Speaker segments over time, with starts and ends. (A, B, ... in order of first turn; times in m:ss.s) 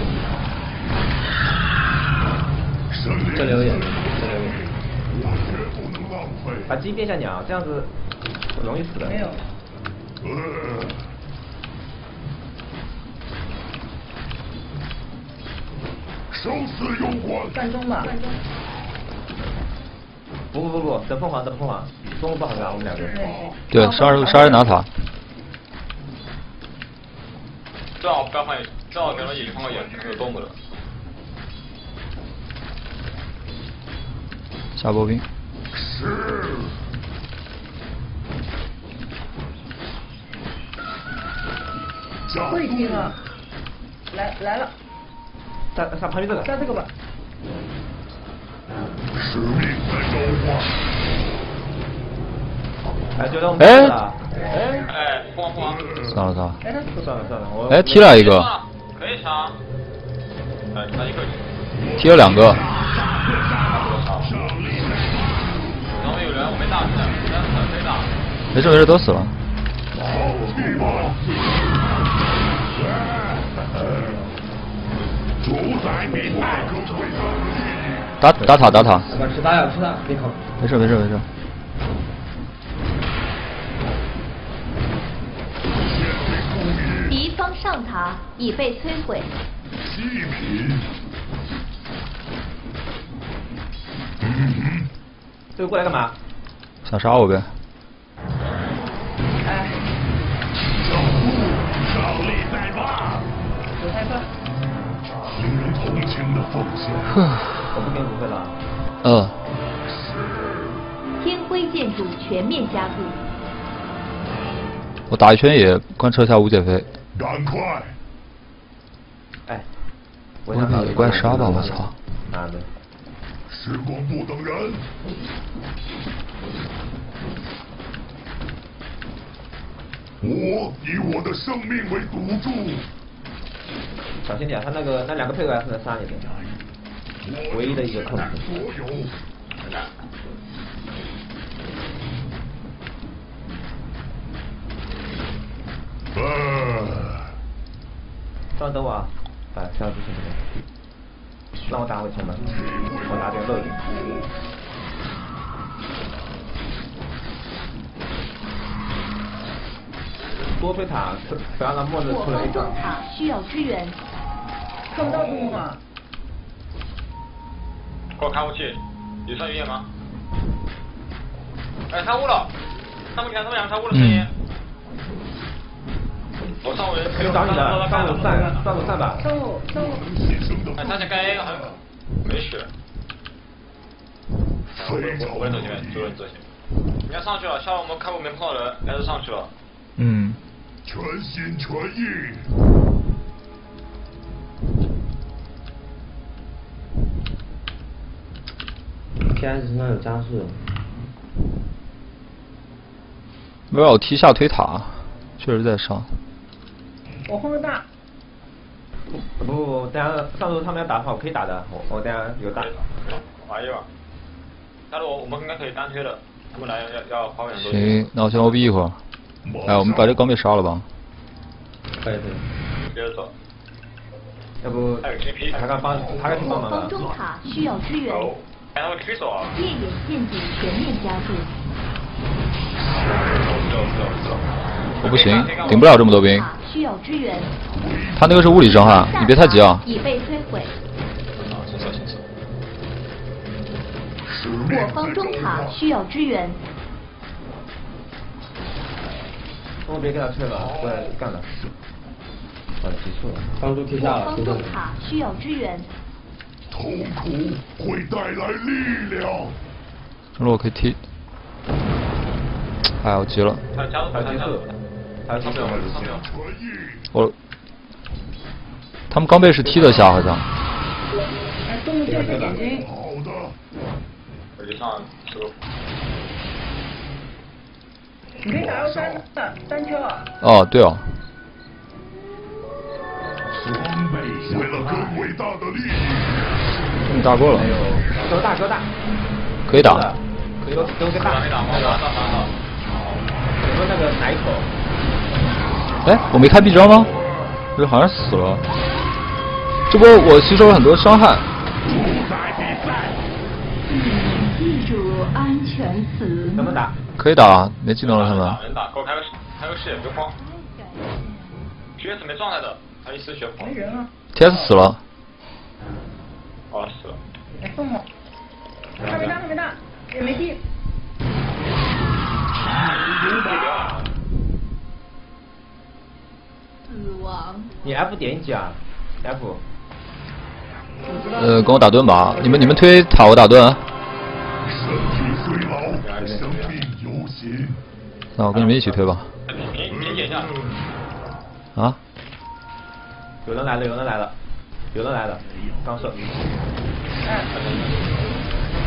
0:02.9-0:06.8 A
0:03.3-0:04.6 B
0:06.7-0:07.9 C
0:08.5-0:09.2 C
0:09.0-0:09.4 D
0:10.2-0:11.1 A
0:16.3-0:17.6 A
0:17.5-0:18.4 D
0:20.5-0:23.2 C
0:22.5-0:23.5 A
0:22.9-0:24.7 D
0:23.7-0:24.9 E
0:28.0-0:30.6 F
0:28.9-0:30.4 A
0:34.8-0:35.2 E
0:35.7-0:36.8 A
0:42.3-0:43.1 A
0:42.5-0:43.2 D
0:44.1-0:44.7 D
0:45.7-0:46.6 C
0:46.4-0:46.9 D
0:49.1-0:50.8 A
0:53.2-0:54.8 C
0:53.6-0:54.0 E
0:54.8-0:55.9 F
0:55.5-0:56.2 A
0:56.1-0:56.6 E
0:56.6-0:57.0 D
0:57.0-0:58.2 C
0:57.7-0:58.5 E
0:58.0-0:59.6 F
1:00.7-1:01.4 F
1:01.8-1:05.3 A
1:02.0-1:02.6 E
1:03.7-1:04.6 F
1:05.9-1:08.1 F
1:08.5-1:09.3 E
1:10.0-1:11.2 A
1:10.0-1:10.9 B
1:13.0-1:14.2 A
1:15.4-1:18.2 A
1:18.2-1:19.1 E
1:18.4-1:19.0 C
1:19.1-1:20.4 B
1:20.6-1:21.3 E
1:25.8-1:27.2 A
1:27.1-1:29.3 G
1:29.8-1:30.9 A
1:34.2-1:34.9 A
1:35.6-1:36.1 C
1:36.8-1:37.5 E
1:39.4-1:39.8 D
1:40.7-1:43.2 A
1:43.8-1:44.3 D
1:45.3-1:47.2 A
1:47.1-1:47.4 E
1:47.7-1:48.5 C
1:49.0-1:49.4 E
1:49.8-1:50.8 A
1:51.2-1:53.2 G
1:55.1-1:56.9 E
1:57.1-1:58.0 A
2:00.4-2:02.7 C
2:00.5-2:01.9 E
2:00.7-2:01.8 B
2:03.5-2:04.9 A
2:10.2-2:12.9 A
2:14.2-2:16.3 C
2:17.2-2:19.2 A
2:17.5-2:18.5 C
2:19.6-2:19.9 F
2:26.1-2:27.3 A
2:28.6-2:30.4 C
2:31.6-2:32.4 C
2:32.4-2:34.3 A
2:33.1-2:33.8 C
2:40.6-2:42.8 C
2:42.1-2:44.0 G
2:44.9-2:45.8 D
2:45.0-2:45.6 A
2:48.1-2:49.9 F
2:51.9-2:52.5 F
2:53.1-2:54.3 F
2:53.9-2:54.3 E
2:56.6-2:58.7 F
2:57.1-2:59.2 C
2:59.2-3:00.0 D
2:59.7-3:01.8 A
3:00.8-3:02.7 F
3:04.7-3:06.1 A
3:04.8-3:06.5 F
3:07.0-3:09.5 F
3:10.0-3:10.4 E
3:10.8-3:12.4 A
3:19.3-3:20.6 B
3:23.7-3:26.1 E
3:27.3-3:27.8 D
3:29.1-3:32.7 C
3:32.5-3:33.9 F
3:34.9-3:38.6 F
3:37.5-3:39.0 E
3:39.4-3:40.2 A
3:39.6-3:40.8 E
3:42.0-3:42.5 B
3:42.9-3:43.3 F
3:44.6-3:47.0 C
3:45.0-3:45.8 F
3:45.8-3:47.2 A
3:46.4-3:48.4 G
3:48.0-3:49.6 F
3:49.5-3:51.5 G
3:52.9-3:54.2 A
3:53.1-3:54.4 F
3:55.0-3:56.1 F
3:55.0-3:56.5 E
3:55.6-3:57.5 G
3:57.7-3:59.0 A
3:58.2-3:59.8 E
3:58.9-4:00.7 G
4:01.4-4:02.2 F
4:04.2-4:05.8 A
4:04.7-4:06.6 G
4:09.8-4:11.5 C
4:10.5-4:11.7 A
4:12.8-4:13.5 C
4:13.6-4:14.8 B
4:14.0-4:15.9 G
4:16.7-4:19.6 A
4:20.4-4:21.0 E
4:23.0-4:23.6 E
4:23.7-4:24.7 F
4:24.1-4:24.6 C
4:25.2-4:26.2 C
4:25.3-4:26.2 F
4:25.6-4:27.0 A
4:29.1-4:30.5 E
4:29.6-4:30.1 C
4:31.7-4:32.9 D
4:32.0-4:32.6 B
4:32.2-4:32.6 C
4:32.6-4:33.6 A
4:34.6-4:35.6 F
4:38.4-4:40.3 D
4:38.6-4:39.1 F
4:38.6-4:38.9 A
4:40.4-4:41.1 E
4:43.6-4:46.5 A
4:47.0-4:47.7 E
4:47.5-4:48.9 C
4:48.1-4:48.4 F
4:49.7-4:50.1 E
4:49.7-4:52.0 C
4:50.7-4:53.2 F
4:53.6-4:54.7 C
4:56.0-4:57.1 E
4:57.7-4:58.6 E
4:59.9-5:01.4 E
5:01.8-5:03.2 A
5:03.9-5:06.8 H
5:06.5-5:06.9 C
5:07.2-5:08.6 E
5:08.0-5:10.4 F
5:09.9-5:11.7 H
5:12.0-5:14.0 F
5:13.6-5:14.5 D
5:14.3-5:15.0 E
5:16.7-5:17.2 F
5:17.6-5:18.0 D
5:19.0-5:19.4 F
5:19.0-5:20.6 D
5:22.8-5:24.1 F
5:22.9-5:23.9 A
5:26.8-5:28.0 H
5:27.8-5:29.6 C
5:31.1-5:32.8 D
5:31.3-5:33.8 E
5:34.6-5:37.8 A
5:36.0-5:36.8 F
5:36.2-5:36.4 C
5:38.4-5:39.3 E
5:38.5-5:40.5 F
5:39.9-5:40.8 A
5:43.4-5:44.3 C
5:44.9-5:46.5 C
5:47.2-5:47.5 D
5:47.5-5:48.2 F